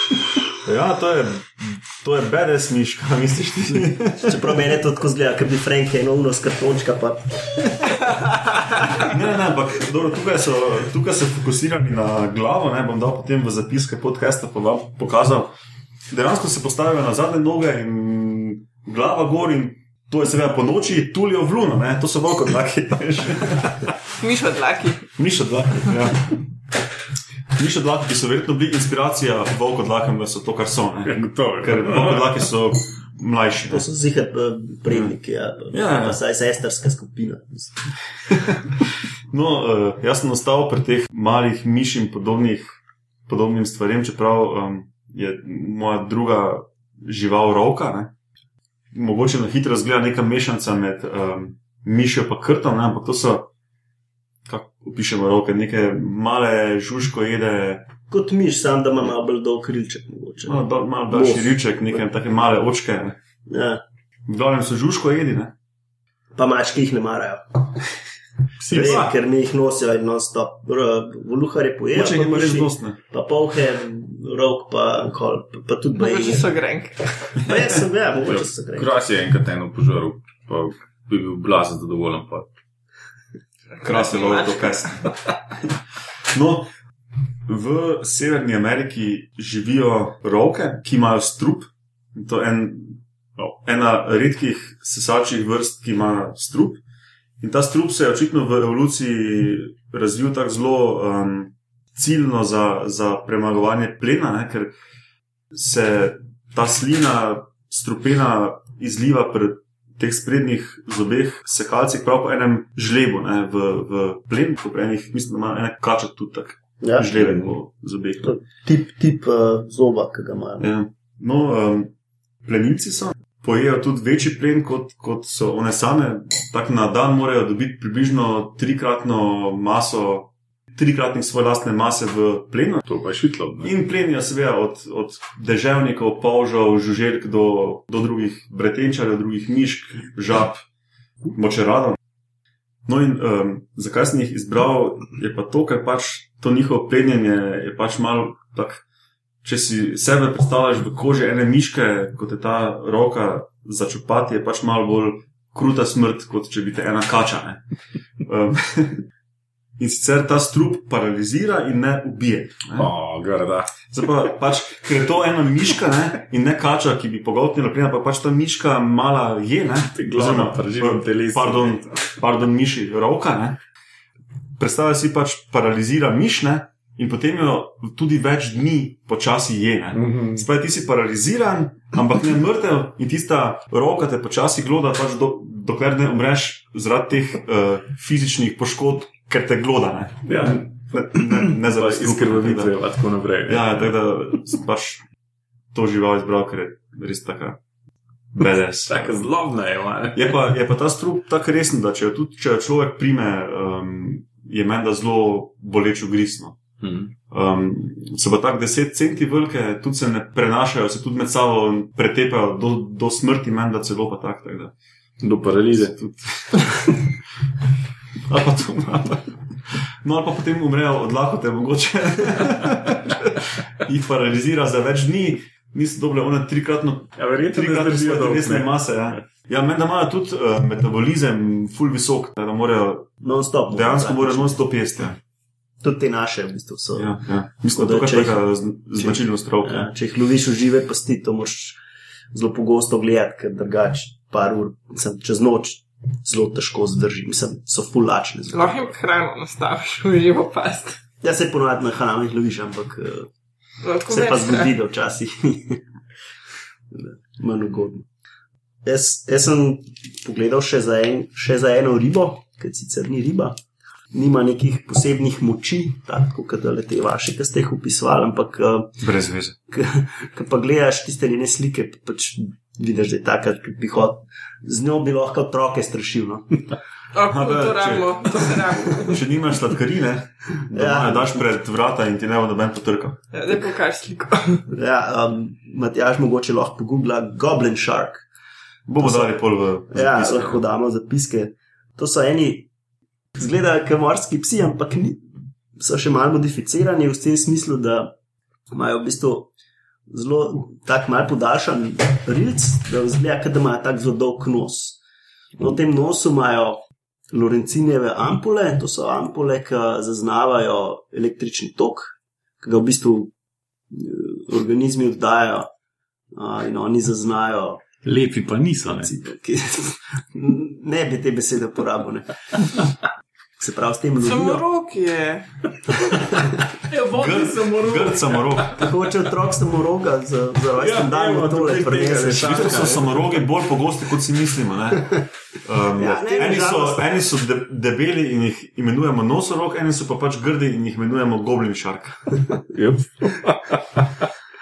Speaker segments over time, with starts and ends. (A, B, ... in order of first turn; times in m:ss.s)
0:00.6-0:04.6 A
0:04.2-0:08.1 B
0:08.9-0:15.5 A
0:16.1-0:24.0 A
0:24.2-0:25.0 C
0:25.2-0:26.4 A
0:27.6-0:33.8 A
0:31.0-0:32.4 D
0:33.7-0:38.5 B
0:34.9-0:35.1 A
0:35.8-0:36.1 A
0:38.3-0:48.1 A
0:48.9-0:53.4 A
0:54.4-0:57.9 A
0:58.1-1:02.0 B
1:00.4-1:03.2 A
1:03.5-1:03.8 B
1:04.2-1:05.5 A
1:06.3-1:07.8 B
1:08.6-1:09.1 D
1:08.7-1:16.5 B
1:11.9-1:13.0 A
1:16.0-1:17.5 C
1:17.3-1:18.9 B
1:18.2-1:22.5 D
1:23.8-1:25.2 A
1:23.9-1:24.6 C
1:26.3-1:26.7 A
1:27.5-1:36.8 A
1:37.4-1:44.7 A
1:45.5-1:58.4 A
1:56.8-1:57.3 B
1:58.2-2:00.7 B
2:00.6-2:01.9 A
2:02.4-2:12.8 A
2:12.8-2:13.7 D
2:13.6-2:20.6 A
2:21.3-2:22.0 A
2:22.8-2:28.8 A
2:29.4-2:37.6 A
2:38.2-2:39.0 A
2:39.8-2:42.9 A
2:42.8-2:43.7 D
2:43.9-2:53.6 A
2:49.9-2:51.9 D
2:54.6-3:12.7 A
2:59.9-3:00.4 D
3:10.2-3:13.9 D
3:13.4-3:15.0 A
3:15.7-3:17.6 A
3:18.3-3:19.2 A
3:18.9-3:20.3 D
3:20.1-3:26.6 A
3:26.8-3:27.1 D
3:27.3-3:34.7 A
3:35.2-3:36.1 D
3:35.8-3:36.7 A
3:38.3-3:53.1 A
3:47.2-3:49.2 D
3:53.2-3:54.6 B
3:53.7-3:55.2 A
3:55.8-3:57.1 B
3:56.9-3:59.9 A
3:57.7-3:58.4 B
3:59.0-4:01.8 B
4:02.3-4:08.9 B
4:08.5-4:11.0 C
4:11.2-4:13.3 B
4:13.8-4:14.7 C
4:14.1-4:15.8 B
4:16.9-4:18.0 B
4:18.8-4:23.6 B
4:24.1-4:29.0 B
4:29.0-4:29.6 A
4:29.7-4:36.8 B
4:37.1-4:39.2 C
4:37.2-4:43.2 A
4:40.7-4:41.4 B
4:43.3-4:44.7 C
4:44.7-4:48.2 B
4:48.9-4:50.6 A
4:49.0-4:49.4 B
4:49.9-4:52.7 B
4:53.4-4:55.2 B
4:55.8-4:58.1 B
4:58.7-4:59.5 B
5:00.1-5:05.0 B
5:05.6-5:06.8 B
5:07.3-5:13.3 B
5:13.9-5:15.7 B
5:16.3-5:17.8 B
5:18.0-5:19.1 D
5:19.0-5:23.0 B
5:23.6-5:24.6 B
5:24.2-5:25.9 C
5:26.3-5:26.7 B
5:26.9-5:28.9 D
5:27.1-5:28.8 A
5:28.8-5:33.0 B
5:30.7-5:33.4 D
5:32.4-5:42.4 A
5:36.0-5:37.0 B
5:42.7-5:44.3 D